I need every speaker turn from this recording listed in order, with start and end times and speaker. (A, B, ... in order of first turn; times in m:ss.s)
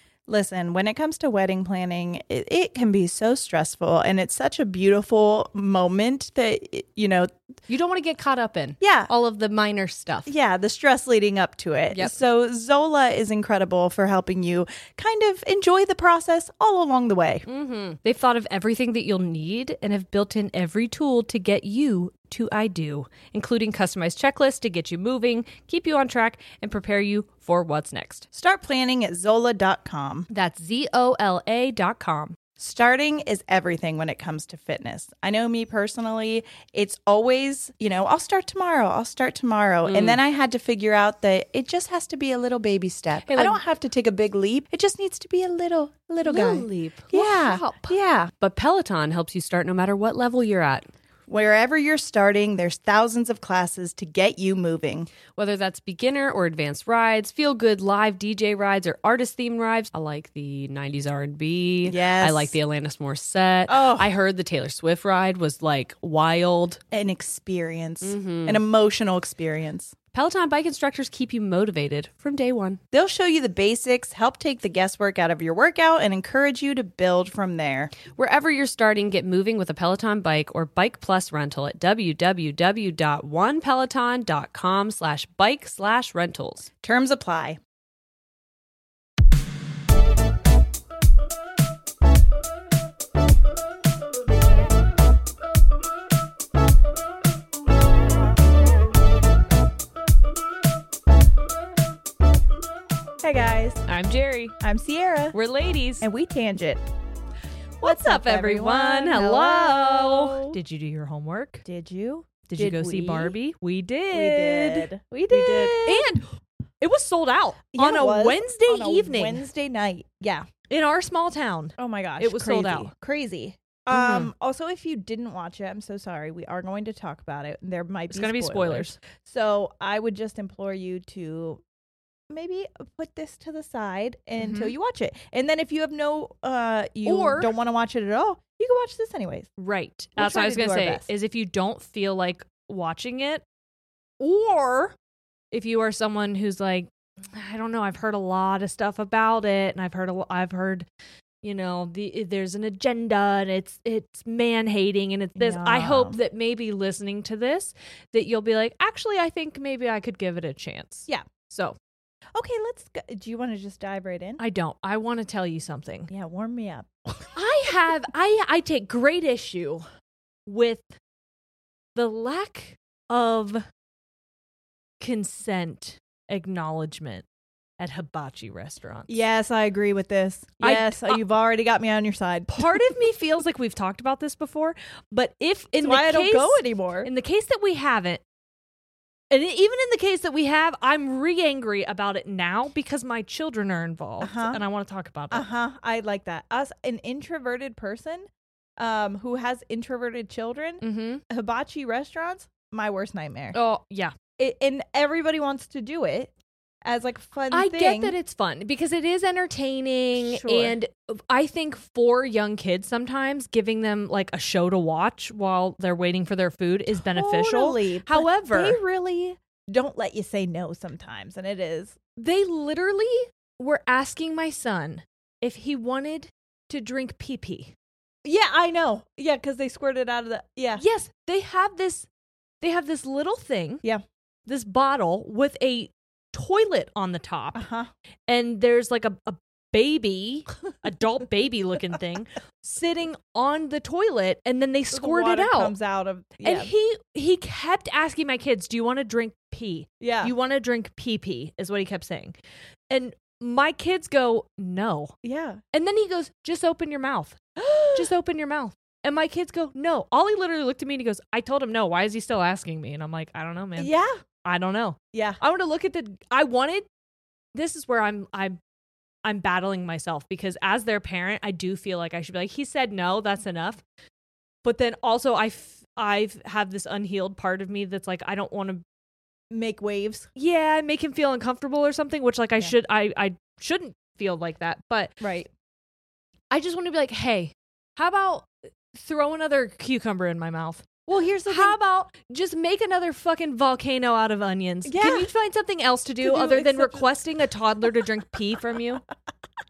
0:00.3-0:07.3 A
0:07.7-0:10.3 B
0:08.8-0:09.1 A
0:10.2-0:17.4 A
0:17.4-0:28.3 B
0:28.3-0:30.3 A
0:30.3-0:32.4 B
0:32.6-0:48.3 A
0:39.8-0:40.2 B
0:43.2-0:43.6 B
0:46.2-0:50.8 B
0:51.3-0:55.1 A
0:55.3-1:06.8 B
1:01.8-1:02.6 A
1:03.7-1:04.1 A
1:06.9-1:09.9 A
1:08.0-1:08.6 B
1:10.1-1:12.8 B
1:12.9-1:17.9 A
1:18.1-1:26.7 B
1:26.8-1:27.6 A
1:43.2-1:43.8 A
1:43.8-1:44.6 B
1:44.6-1:45.3 A
1:45.3-1:46.0 B
1:46.0-1:46.8 A
1:47.8-1:51.6 B
1:47.8-1:50.6 A
1:51.6-1:53.3 A
1:52.5-1:56.3 B
1:54.1-1:56.1 A
1:56.8-1:59.4 B
1:57.7-2:00.5 A
2:00.7-2:02.9 B
2:01.8-2:11.6 A
2:03.9-2:04.3 B
2:08.1-2:09.0 B
2:12.3-2:19.5 A
2:14.4-2:14.7 B
2:17.0-2:17.5 B
2:19.6-2:23.4 B
2:20.2-2:21.1 A
2:24.2-2:24.9 B
2:25.5-2:30.8 B
2:31.4-2:41.8 B
2:35.3-2:36.2 A
2:42.4-2:44.4 A
2:44.4-2:46.1 B
2:46.1-2:47.4 A
2:47.3-2:49.8 B
2:50.4-2:50.9 B
2:51.9-2:53.6 B
2:55.0-2:57.2 B
2:57.8-2:59.2 B
2:59.1-3:02.9 A
3:00.6-3:01.2 B
3:02.5-3:08.2 B
3:05.8-3:07.1 A
3:09.3-3:15.5 B
3:14.2-3:14.6 A
3:15.3-3:23.6 A
3:20.8-3:21.2 B
3:23.5-3:24.1 B
3:24.4-3:26.3 A
3:26.8-3:28.1 A
3:27.5-3:38.8 B
3:30.1-3:30.8 A
3:36.9-3:42.0 A
3:42.2-3:47.7 B
3:48.2-3:50.8 A
3:50.8-3:52.1 B
3:52.6-3:53.8 B
3:54.4-3:57.6 B
3:57.5-3:57.9 A
3:58.3-4:05.7 B
4:04.9-4:06.7 A
4:06.4-4:12.3 B
4:10.0-4:10.3 A
4:12.9-4:15.1 B
4:15.2-4:15.6 A
4:15.7-4:17.4 B
4:17.6-4:18.1 A
4:17.9-4:23.9 B
4:23.8-4:24.2 A
4:24.4-4:26.9 B
4:25.1-4:25.4 A
4:27.5-4:28.6 B
4:29.2-4:33.8 B
4:34.6-4:38.8 B
4:39.5-4:40.3 A
4:40.4-4:45.2 B
4:45.2-4:45.5 A
4:46.5-4:50.9 B
4:51.1-4:51.8 A
4:51.4-4:59.0 B
4:54.8-4:55.3 A
4:56.2-4:57.1 A